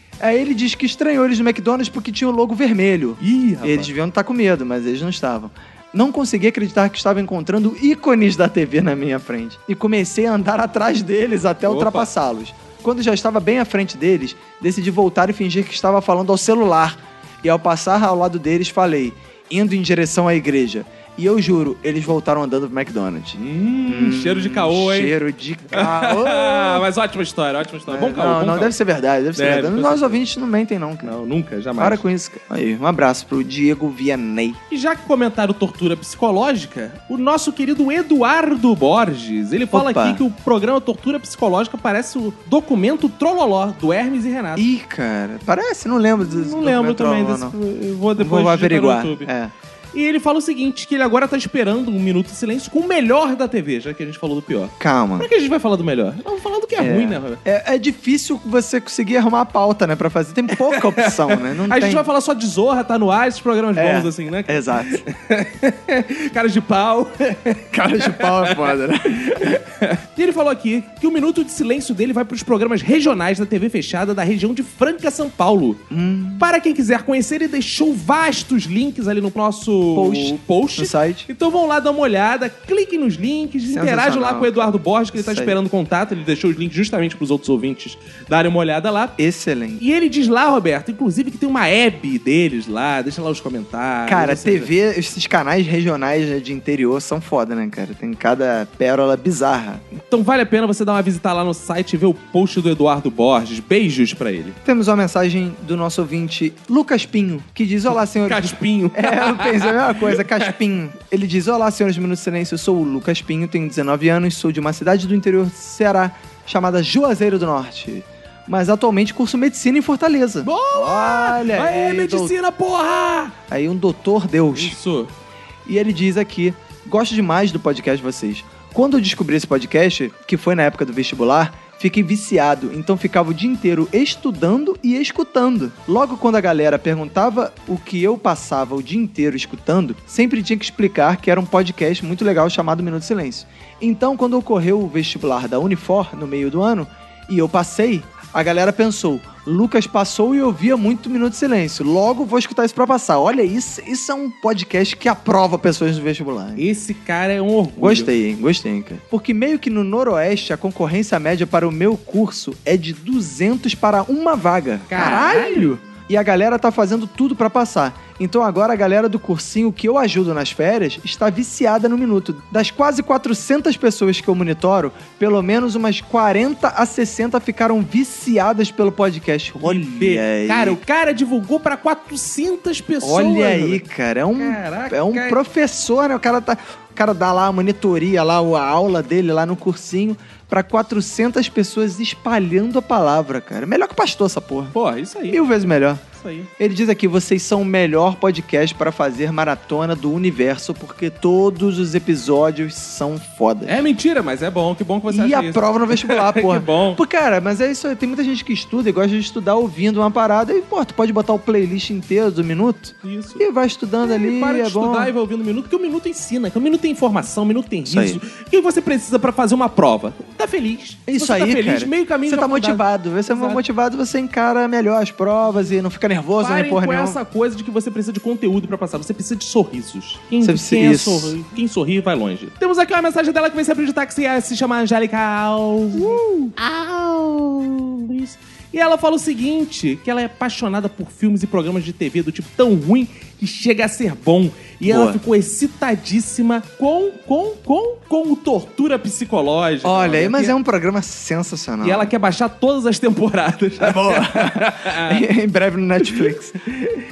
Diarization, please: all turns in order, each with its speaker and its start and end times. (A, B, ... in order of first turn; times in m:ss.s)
0:00.2-0:26.8 A
0:03.2-0:03.9 B
0:11.6-0:12.1 B
0:23.4-0:25.1 B
0:25.7-0:28.7 B
0:27.9-0:31.2 A
0:29.4-0:30.2 B
0:31.0-0:32.0 B
0:31.8-0:34.6 A
0:34.7-0:44.6 B
0:39.7-0:40.2 A
0:44.6-0:47.5 A
0:46.2-0:49.3 B
0:48.2-0:49.5 A
0:49.9-0:57.4 B
0:54.8-0:55.3 A
0:56.8-1:02.0 A
1:00.6-1:08.8 B
1:03.8-1:05.0 A
1:07.7-1:09.6 A
1:09.4-1:15.8 B
1:15.9-1:16.5 A
1:16.4-1:29.2 B
1:19.9-1:21.3 A
1:23.7-1:25.6 A
1:29.2-1:29.8 A
1:29.8-1:34.7 B
1:34.1-1:39.8 A
1:40.1-1:44.6 B
1:44.6-2:02.3 A
1:48.2-1:50.5 B
2:00.4-2:03.4 B
2:03.5-2:04.8 A
2:04.5-2:05.1 B
2:05.7-2:36.6 A
2:36.6-2:38.1 B
2:37.8-3:00.8 A
2:44.9-2:45.7 B
2:59.6-3:03.8 B
3:03.0-3:14.8 A
3:04.4-3:05.4 B
3:14.7-3:15.4 B
3:15.3-3:16.0 A
3:16.1-3:16.5 B
3:16.6-3:23.8 A
3:23.7-3:27.0 B
3:25.1-3:35.1 A
3:33.0-3:33.4 B
3:34.0-3:43.6 B
3:37.9-3:38.2 A
3:41.1-3:47.2 A
3:45.4-3:45.7 B
3:46.4-4:10.6 B
3:50.4-3:51.3 A
4:04.9-4:05.2 A
4:09.8-4:12.1 A
4:11.8-4:15.2 B
4:13.8-4:16.6 A
4:16.0-4:16.3 B